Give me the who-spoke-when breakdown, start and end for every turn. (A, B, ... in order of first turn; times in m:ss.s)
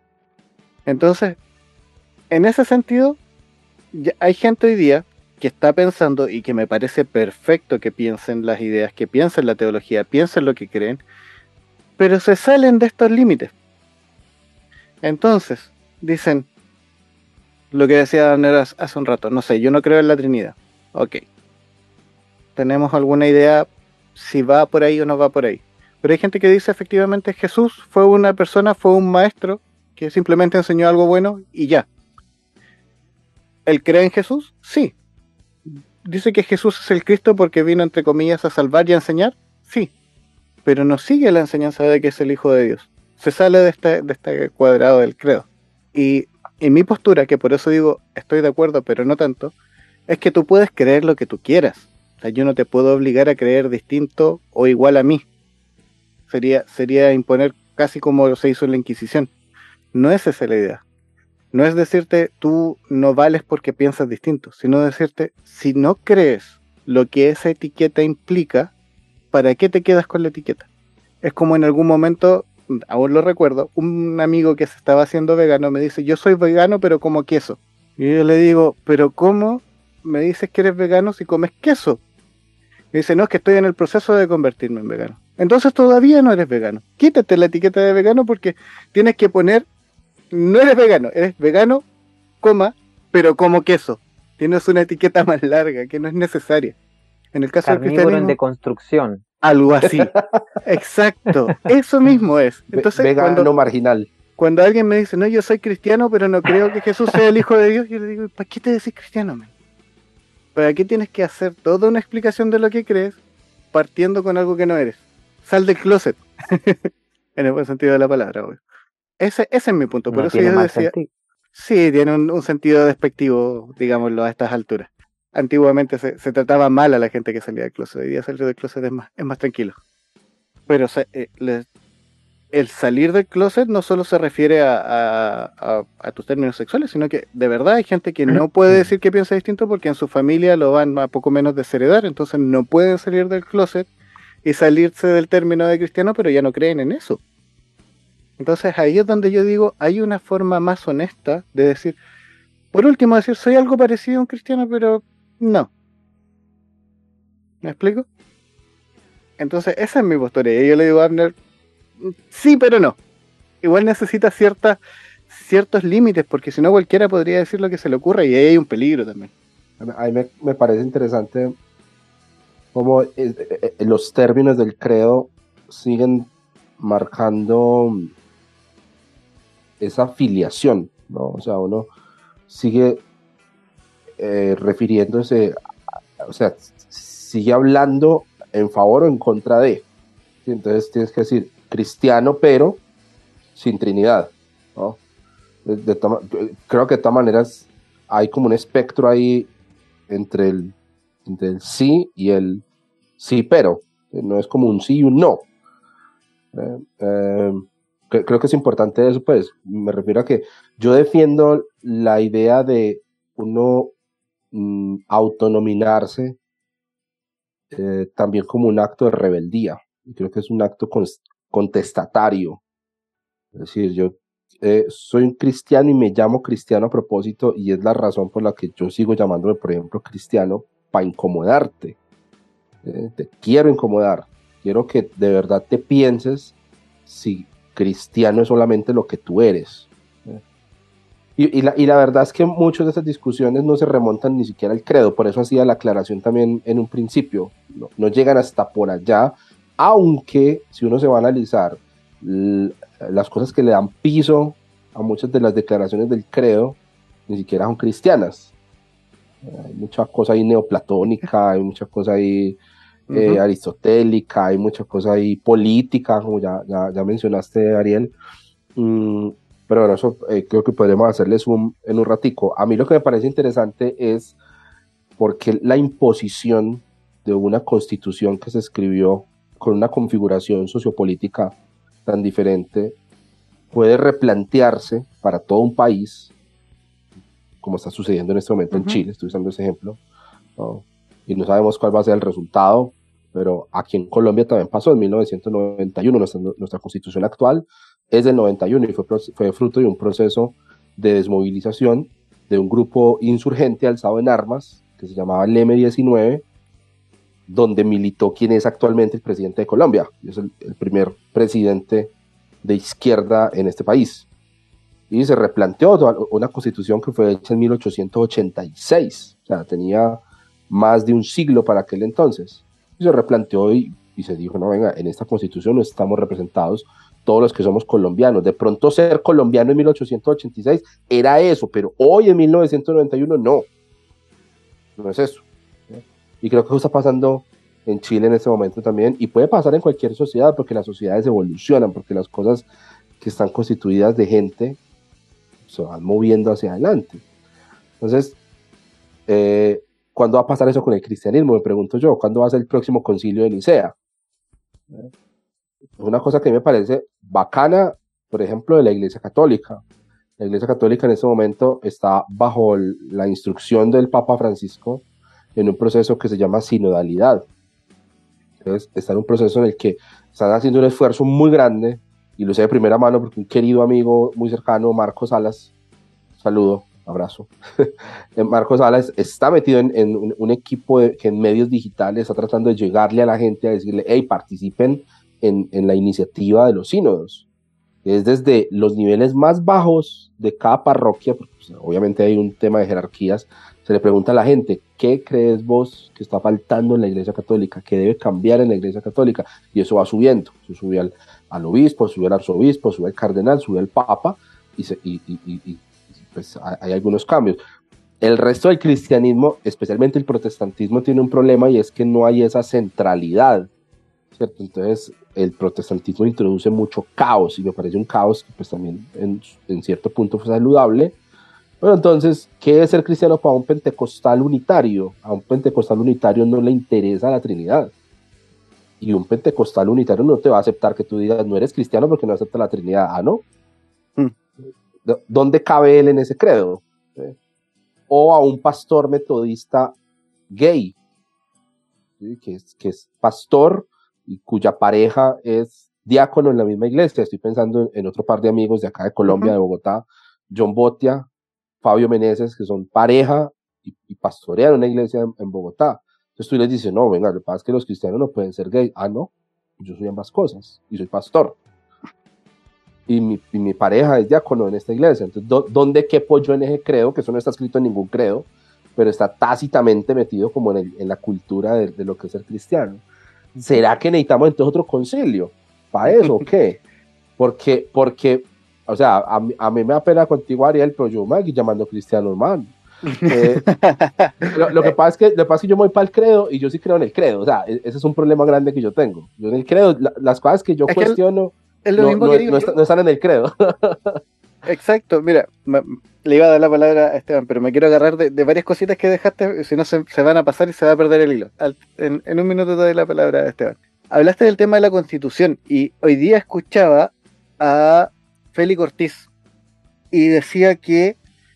0:00.8-0:01.4 A
0:02.3-0:03.2 A
0:03.9-0:11.0 A
0:12.0-0:13.5 A
0:15.0-0:16.5 A
0:17.7-0:21.2 A
0:22.6-0:31.8 A
0:33.6-0:34.9 A
0:36.0-0:39.9 A
0:40.6-0:49.5 A
0:50.1-0:55.2 A
0:56.3-0:59.3 A
0:59.9-1:00.8 A
1:01.5-1:08.7 A
1:09.3-1:10.7 A
1:11.2-1:22.0 A
1:22.9-1:29.6 A
1:30.3-1:31.8 A
1:32.4-1:36.8 A
1:37.3-1:38.4 A
1:37.6-1:39.2 B
1:39.4-1:43.5 A
1:39.9-1:40.4 C
1:42.7-1:44.1 C
1:44.4-1:49.5 A
1:50.5-1:53.2 A
1:53.7-1:58.6 A
1:59.2-2:00.9 A
2:00.1-2:01.1 B
2:01.5-2:09.8 A
2:10.7-2:11.6 A
2:12.5-2:23.9 A
2:24.4-2:27.2 A
2:28.4-2:32.0 A
2:32.7-2:35.7 A
2:37.6-2:38.0 A
2:39.4-2:41.3 A
2:42.0-2:43.0 A
2:43.6-2:49.3 A
2:49.8-2:51.5 C
2:52.7-2:58.1 C
2:59.8-3:01.9 C
3:02.5-3:03.0 C
3:04.2-3:05.5 C
3:06.2-3:09.8 C
3:10.4-3:12.8 C
3:13.6-3:15.0 C
3:15.6-3:19.5 C
3:20.1-3:20.7 C
3:21.2-3:22.6 C
3:23.2-3:25.4 C
3:26.5-3:33.9 C
3:34.5-3:36.4 C
3:37.7-3:42.6 C
3:43.5-3:52.0 C
3:52.8-3:56.5 C
3:57.0-4:00.4 C
4:01.4-4:18.5 C
4:19.4-4:22.6 C
4:23.1-4:23.4 A
4:23.1-4:28.1 C
4:28.7-4:34.4 C
4:35.2-4:43.0 C
4:43.7-4:46.3 C
4:47.6-4:50.0 C
4:48.7-4:49.0 A
4:50.6-5:06.4 C
5:07.5-5:12.1 C
5:12.6-5:14.3 C
5:15.1-5:33.7 C
5:35.0-5:42.7 C
5:43.2-5:44.8 C
5:45.6-5:47.2 C
5:48.0-5:48.4 C
5:49.3-5:53.9 C
5:56.0-5:59.8 C
6:00.4-6:05.0 C
6:05.6-6:07.4 C
6:08.6-6:15.7 C
6:16.4-6:27.4 C
6:28.0-6:47.6 C
6:48.2-6:53.7 C
6:54.3-7:01.2 C
7:01.8-7:07.9 C
7:09.0-7:13.4 C
7:15.0-7:17.4 C
7:18.1-7:20.0 C
7:20.5-7:21.0 C
7:22.2-7:31.3 C
7:29.3-7:29.5 A
7:31.8-7:41.6 C
7:43.1-7:53.0 C
7:53.5-7:53.8 A
7:53.6-7:56.8 C
7:56.1-7:56.4 A
7:57.4-8:02.7 C
8:03.1-8:04.9 A
8:03.3-8:03.6 C
8:04.5-8:14.2 C
8:10.9-8:11.2 A
8:11.8-8:12.7 A
8:14.6-8:29.3 A
8:30.1-8:31.2 A